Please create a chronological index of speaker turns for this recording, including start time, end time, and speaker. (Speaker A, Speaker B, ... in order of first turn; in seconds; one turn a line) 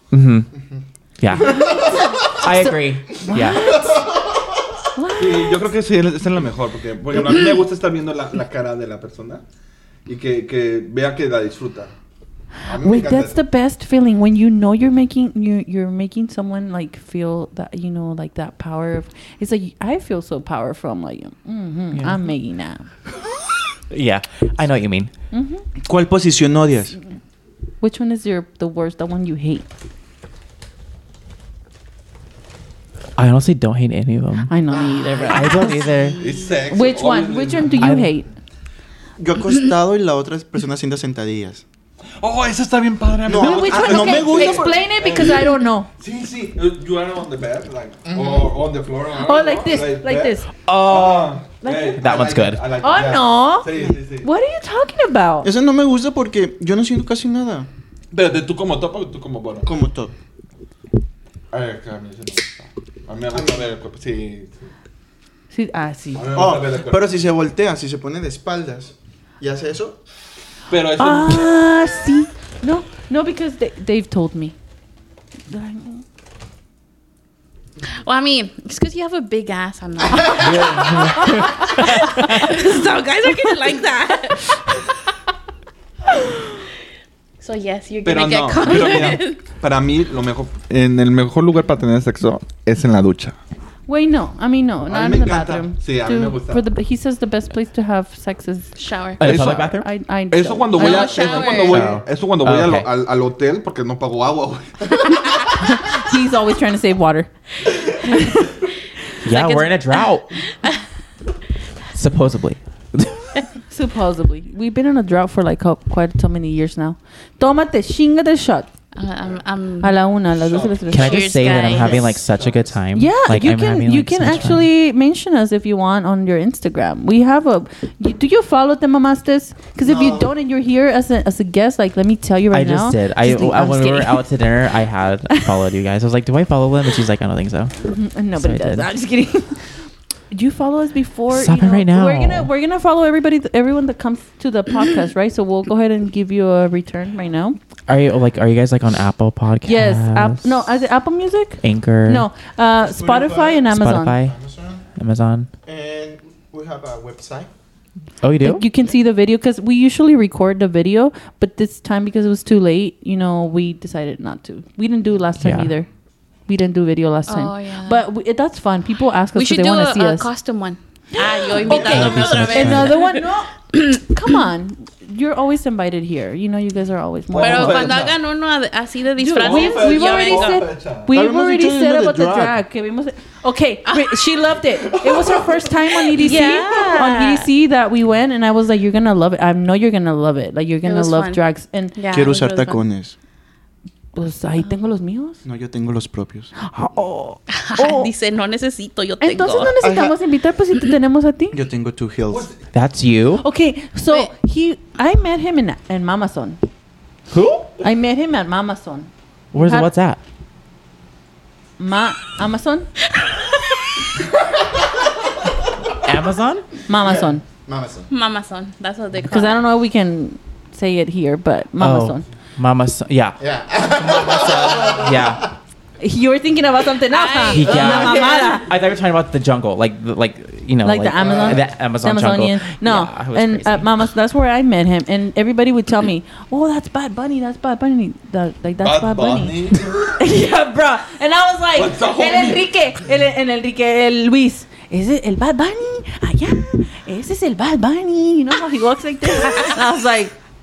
Speaker A: 0.1-0.5
Speaker A: 1.2-3.8
Speaker B: 1.4-2.0
Speaker C: 1.7-3.9
Speaker B: 3.5-4.5
Speaker C: 4.9-5.6
Speaker D: 5.2-9.4
Speaker D: 10.1-11.9
Speaker D: 12.6-13.4
Speaker C: 12.8-22.9
Speaker A: 23.9-25.1
Speaker C: 25.3-25.6
Speaker B: 25.8-26.9
Speaker C: 27.8-29.7
Speaker A: 33.2-34.5
Speaker C: 34.5-35.9
Speaker B: 34.7-35.7
Speaker A: 35.2-36.2
Speaker D: 36.2-37.9
Speaker C: 36.7-38.3
Speaker A: 37.8-38.1
Speaker B: 39.2-41.6
Speaker D: 42.2-54.3
Speaker B: 43.2-44.9
Speaker C: 43.3-45.9
Speaker B: 48.1-48.5
Speaker C: 49.2-50.5
Speaker A: 50.6-51.3
Speaker C: 51.6-52.0
Speaker A: 52.0-52.7
Speaker C: 52.8-55.5
Speaker B: 55.4-57.7
Speaker D: 58.1-59.7
Speaker B: 59.6-60.1
Speaker D: 61.5-64.7
Speaker C: 65.5-66.3
Speaker D: 66.1-67.0
Speaker B: 66.3-70.0
Speaker D: 70.7-71.5
Speaker C: 71.0-74.5
Speaker C: 75.5-76.0
Speaker E: 77.8-84.5
Speaker A: 80.4-82.4
Speaker C: 80.9-83.6
Speaker E: 86.2-86.5
Speaker E: 87.4-89.4
Speaker D: 88.0-93.4
Speaker C: 93.9-101.8
Speaker D: 94.8-96.6
Speaker E: 98.8-99.4
Speaker A: 99.2-99.9
Speaker D: 99.2-99.7
Speaker D: 100.3-105.0
Speaker E: 100.7-101.9
Speaker A: 101.7-102.8
Speaker C: 105.6-107.3
Speaker C: 107.9-108.5
Speaker A: 109.2-110.4
Speaker E: 109.3-109.7
Speaker A: 111.9-113.3
Speaker C: 113.7-118.7
Speaker E: 118.9-120.0
Speaker C: 119.8-121.5
Speaker D: 120.4-122.8
Speaker A: 120.9-124.7
Speaker E: 121.0-122.0
Speaker B: 121.7-122.1
Speaker C: 122.9-134.3
Speaker B: 129.8-130.3
Speaker A: 132.5-137.8
Speaker C: 135.3-135.6
Speaker C: 137.8-139.8
Speaker A: 138.4-138.9
Speaker C: 140.3-147.6
Speaker A: 141.3-142.5
Speaker A: 147.9-150.5
Speaker C: 149.6-154.2
Speaker A: 151.6-152.2
Speaker B: 152.8-153.7
Speaker A: 153.7-154.4
Speaker B: 154.2-154.8
Speaker A: 154.9-155.5
Speaker B: 155.6-157.5
Speaker A: 158.2-158.6
Speaker C: 158.4-165.9
Speaker A: 165.4-165.7
Speaker C: 166.5-170.3
Speaker E: 167.3-168.0
Speaker E: 169.3-174.0
Speaker C: 171.5-171.8
Speaker B: 171.6-172.9
Speaker A: 171.8-172.9
Speaker C: 172.5-178.1
Speaker D: 177.3-178.2
Speaker E: 177.3-180.6
Speaker C: 179.2-192.3
Speaker D: 179.4-181.1
Speaker B: 181.1-182.6
Speaker E: 183.8-184.2
Speaker E: 186.1-187.5
Speaker E: 190.8-191.4
Speaker E: 191.9-192.8
Speaker B: 192.1-193.1
Speaker C: 194.1-195.4
Speaker B: 195.4-196.5
Speaker C: 196.6-198.1
Speaker E: 197.5-199.7
Speaker C: 199.2-201.6
Speaker B: 199.8-200.2
Speaker B: 201.5-202.5
Speaker D: 202.3-202.6
Speaker A: 202.7-203.4
Speaker C: 203.4-206.6
Speaker A: 207.3-207.7
Speaker C: 207.8-209.9
Speaker A: 209.5-210.2
Speaker C: 211.8-212.9
Speaker E: 213.2-213.8
Speaker A: 216.0-216.7
Speaker C: 216.9-217.4
Speaker B: 217.0-218.1
Speaker E: 218.1-219.6
Speaker C: 219.3-222.2
Speaker A: 221.8-225.5
Speaker B: 223.4-225.5
Speaker C: 226.0-228.7
Speaker E: 227.1-228.5
Speaker A: 227.5-233.9
Speaker C: 230.8-250.3
Speaker B: 231.2-231.6
Speaker D: 238.8-240.2
Speaker D: 241.7-242.7
Speaker E: 249.4-249.7